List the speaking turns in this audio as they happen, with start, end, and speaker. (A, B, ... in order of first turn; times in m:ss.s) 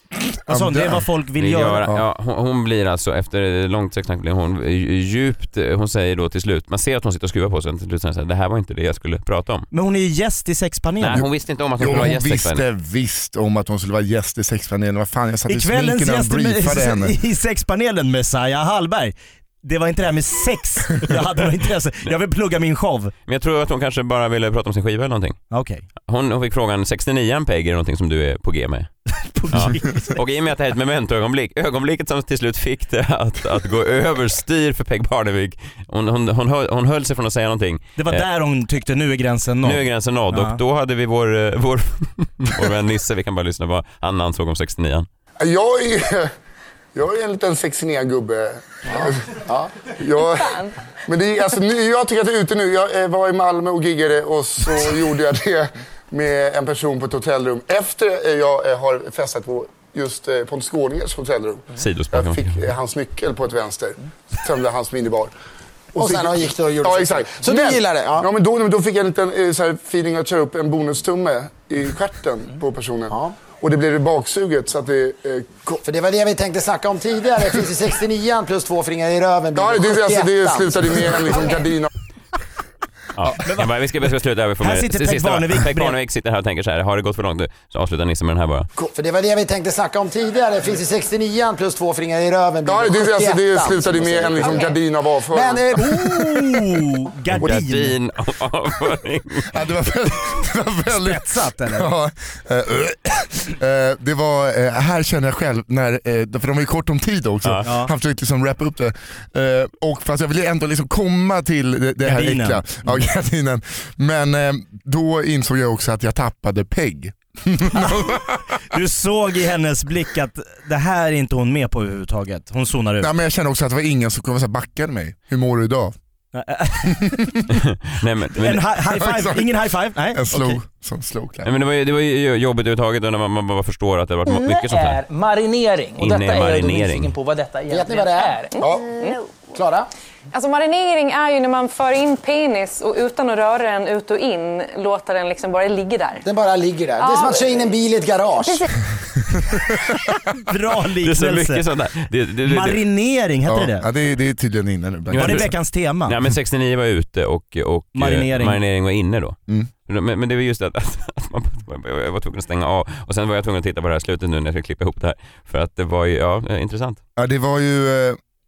0:00.4-0:01.0 A
0:00.5-0:01.9 B
0:01.4-0:09.7 C
0:09.7-0:11.2 B
0:11.0-0:12.6 C
0:11.1-0:17.2 A
0:15.5-0:23.1 B
0:23.3-0:25.4 C
0:25.5-0:25.9 B
0:26.1-0:28.9 C
0:29.1-0:30.2 B
0:29.5-0:38.2 C
0:38.0-0:40.6 B
0:39.6-0:45.1 C
0:45.4-0:46.3 D
0:46.9-0:49.1 D
0:48.9-0:49.7 E
0:50.0-0:50.4 D
0:50.1-0:50.7 F
0:51.1-1:05.3 D
1:01.8-1:02.6 C
1:05.9-1:15.8 D
1:06.0-1:08.3 E
1:13.1-1:13.3 E
1:15.8-1:21.7 E
1:19.5-1:21.9 D
1:23.1-1:28.7 C
1:23.4-1:23.8 B
1:24.6-1:26.0 B
1:28.9-1:36.2 E
1:32.7-1:35.6 D
1:35.8-1:37.9 B
1:37.3-1:39.4 C
1:39.5-1:58.6 A
1:40.9-1:41.9 B
1:47.6-1:47.9 B
1:52.0-1:53.0 B
1:57.7-1:58.1 B
1:58.7-2:03.1 B
2:03.0-2:05.9 A
2:06.3-2:07.3 B
2:06.9-2:07.4 A
2:07.5-2:08.6 C
2:08.4-2:10.6 B
2:08.9-2:09.6 A
2:10.1-2:11.5 A
2:11.4-2:15.0 C
2:14.2-2:18.6 G
2:16.0-2:17.1 C
2:17.7-2:18.4 E
2:18.6-2:19.2 F
2:19.5-2:19.9 E
2:20.3-2:26.2 F
2:26.2-2:28.6 E
2:27.0-2:27.6 F
2:30.3-2:31.6 B
2:31.0-2:32.8 C
2:32.4-2:33.8 B
2:33.4-2:35.5 A
2:35.1-2:35.5 C
2:35.2-2:36.1 B
2:36.0-2:47.0 C
2:37.9-2:38.6 B
2:47.2-2:48.2 A